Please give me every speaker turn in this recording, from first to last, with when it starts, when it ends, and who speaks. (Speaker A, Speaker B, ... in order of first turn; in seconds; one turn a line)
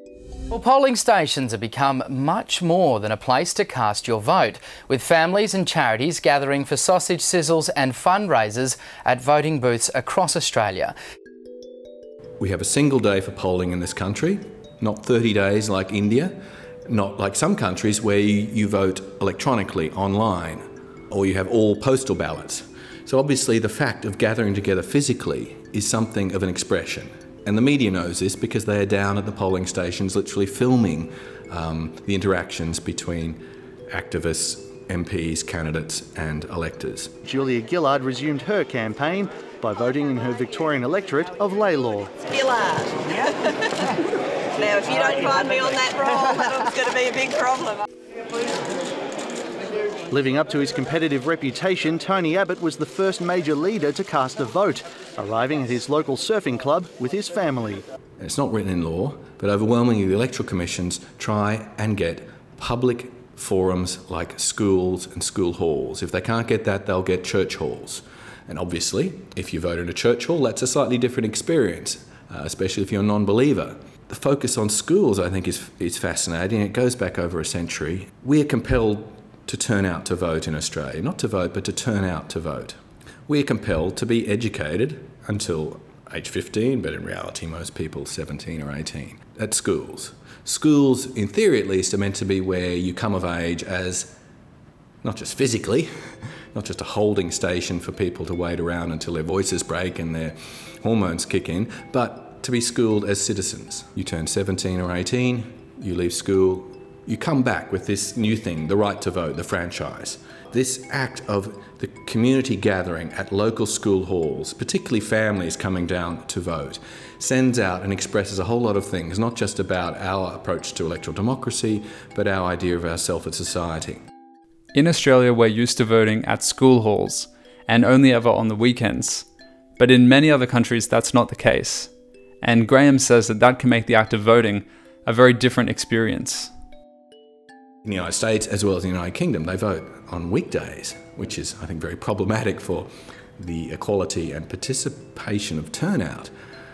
Speaker A: 0.5-11.0
Speaker B: 12.4-37.1
Speaker C: 37.2-42.2
Speaker D: 42.3-44.0
Speaker D: 44.5-47.8
Speaker C: 50.1-57.9
Speaker B: 58.2-94.1
Speaker B: 95.0-95.9
Speaker B: 96.5-124.0
Speaker E: 124.7-129.3
Speaker E: 129.8-131.9
Speaker E: 132.4-136.5
Speaker B: 137.8-146.3